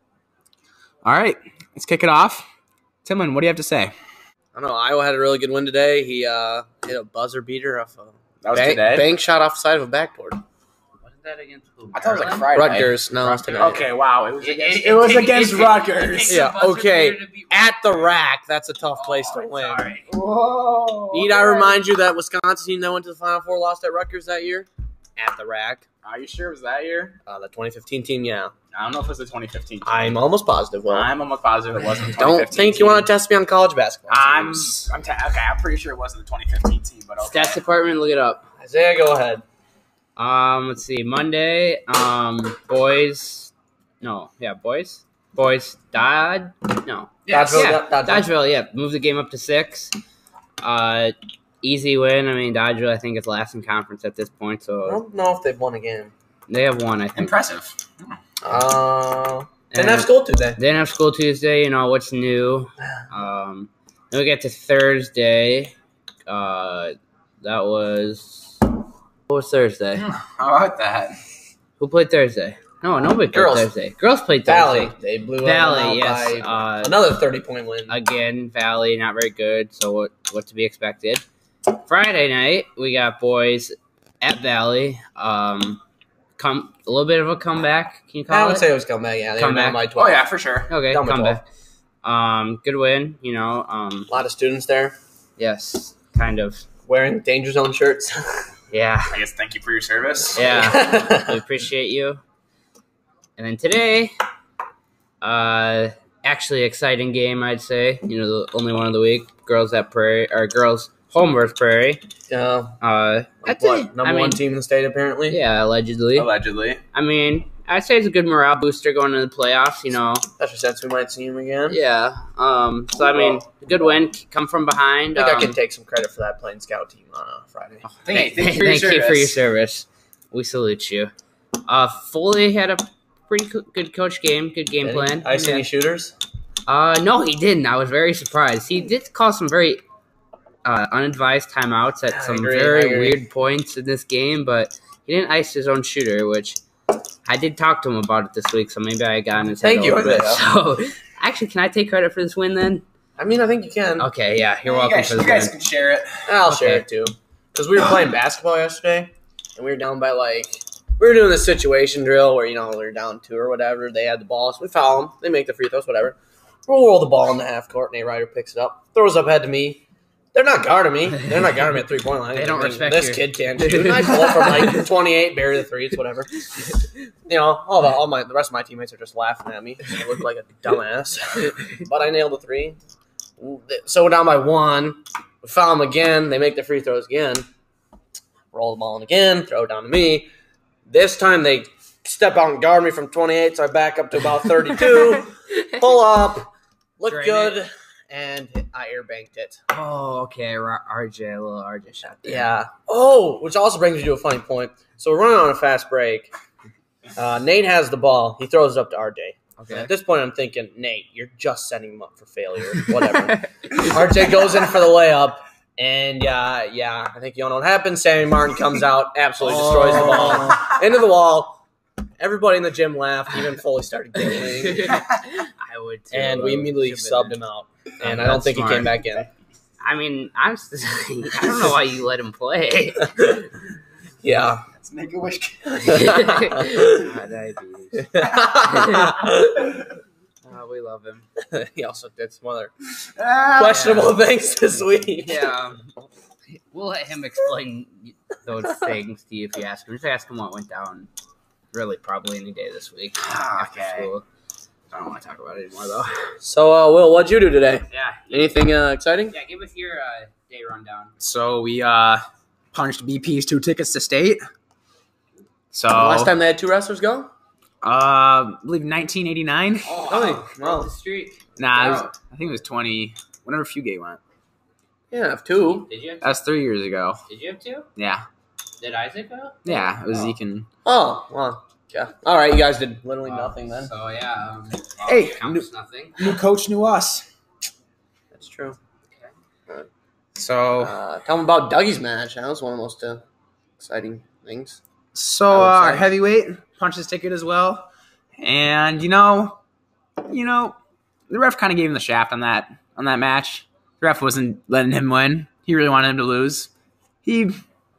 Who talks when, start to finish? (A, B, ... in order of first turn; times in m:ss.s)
0:01.0-0:02.4 A
0:03.0-0:03.9 A
0:04.5-0:10.4 B
0:08.4-0:09.1 A
0:11.0-0:12.5 C
0:11.9-0:16.4 A
0:12.5-0:13.8 B
0:13.4-0:13.8 C
0:14.4-0:18.1 C
0:16.2-0:19.9 B
0:18.9-0:20.1 C
0:20.1-0:21.8 A
0:21.1-0:25.8 B
0:26.0-0:27.2 A
0:27.2-0:28.5 B
0:28.7-0:29.9 A
0:29.8-0:31.1 B
0:30.9-0:33.1 A
0:32.2-0:34.9 B
0:34.1-0:37.6 A
0:37.2-0:38.5 C
0:38.6-0:39.4 B
0:40.2-0:49.9 C
0:47.2-0:47.7 A
0:47.3-0:48.3 B
0:50.6-0:55.0 C
0:54.8-0:56.1 B
0:56.5-0:57.4 C
0:57.2-0:58.2 A
0:58.4-1:00.6 B
0:59.7-1:05.7 C
1:06.2-1:08.6 C
1:09.3-1:10.0 C
1:10.0-1:11.2 A
1:11.8-1:17.0 C
1:13.3-1:13.7 B
1:14.4-1:17.9 B
1:17.9-1:25.8 C
1:26.4-1:28.7 C
1:28.3-1:30.3 B
1:29.4-1:29.8 C
1:30.0-1:30.7 A
1:30.7-1:31.4 C
1:30.9-1:31.4 B
1:32.0-1:34.1 C
1:34.1-1:34.9 B
1:35.4-1:36.6 C
1:36.8-1:38.5 B
1:38.7-1:39.2 C
1:39.1-1:40.5 A
1:40.3-1:42.2 C
1:40.4-1:41.4 B
1:43.4-1:44.1 C
1:45.2-1:52.0 C
1:52.3-1:52.8 B
1:52.8-1:54.4 C
1:53.4-1:55.4 B
1:55.3-1:56.3 C
1:56.2-1:56.8 A
1:56.9-2:00.2 C
2:00.4-2:01.8 B
2:01.7-2:05.5 C
2:05.2-2:08.3 B
2:07.8-2:09.4 A
2:08.3-2:11.1 C
2:11.6-2:15.6 C
2:14.8-2:16.1 B
2:16.7-2:19.8 C
2:20.6-2:26.6 C
2:22.1-2:23.2 B
2:27.2-2:32.8 C
2:29.6-2:30.4 B
2:33.2-2:34.1 B
2:34.0-2:35.5 C
2:34.6-2:36.2 A
2:36.3-2:56.6 B
2:36.4-2:36.8 C
2:52.3-2:54.8 C
2:57.2-3:02.8 B
3:03.4-3:07.4 B
3:08.5-3:10.3 B
3:10.9-3:19.6 B
3:14.8-3:15.7 C
3:17.1-3:17.6 C
3:19.7-3:22.5 C
3:22.2-3:26.3 B
3:27.2-3:41.6 B
3:29.6-3:29.9 C
3:33.3-3:33.9 C
3:39.5-3:40.6 C
3:40.0-3:40.5 A
3:42.2-3:45.0 B
3:44.4-3:47.4 C
3:46.1-3:49.3 B
3:48.0-3:49.0 C
3:49.8-3:53.5 C
3:54.2-3:54.6 B
3:54.7-3:56.1 A
3:55.8-3:57.1 B
3:55.8-3:59.1 C
3:58.0-3:59.8 B
3:58.2-3:59.0 A
4:00.4-4:01.2 C
4:01.4-4:02.7 B
4:03.2-4:04.1 A
4:03.5-4:05.5 B
4:05.2-4:05.9 C
4:06.5-4:11.1 C
4:11.7-4:14.2 C
4:13.2-4:14.1 A
4:14.9-4:16.3 C
4:16.4-4:19.4 B
4:17.9-4:18.5 C
4:19.3-4:21.1 C
4:21.2-4:24.4 A
4:25.7-4:26.3 A
4:25.9-4:27.3 B
4:27.8-4:29.9 A
4:29.8-4:32.1 C
4:30.0-4:30.9 B
4:31.6-4:34.2 A
4:35.1-4:35.8 B
4:35.6-4:36.3 C
4:36.2-4:37.2 A
4:37.3-4:37.9 C
4:38.0-4:38.2 A
4:38.8-4:39.9 C
4:39.6-4:40.7 A
4:40.8-4:43.9 B
4:43.2-4:46.2 C
4:45.1-4:45.5 A
4:46.2-4:47.2 A
4:48.3-4:48.8 B
4:50.3-4:50.9 A
4:50.8-4:53.2 B
4:53.8-4:54.8 B
4:55.1-4:59.6 A
4:55.5-4:56.1 B
5:00.2-5:00.8 A
5:01.3-5:06.7 A
5:07.2-5:07.6 A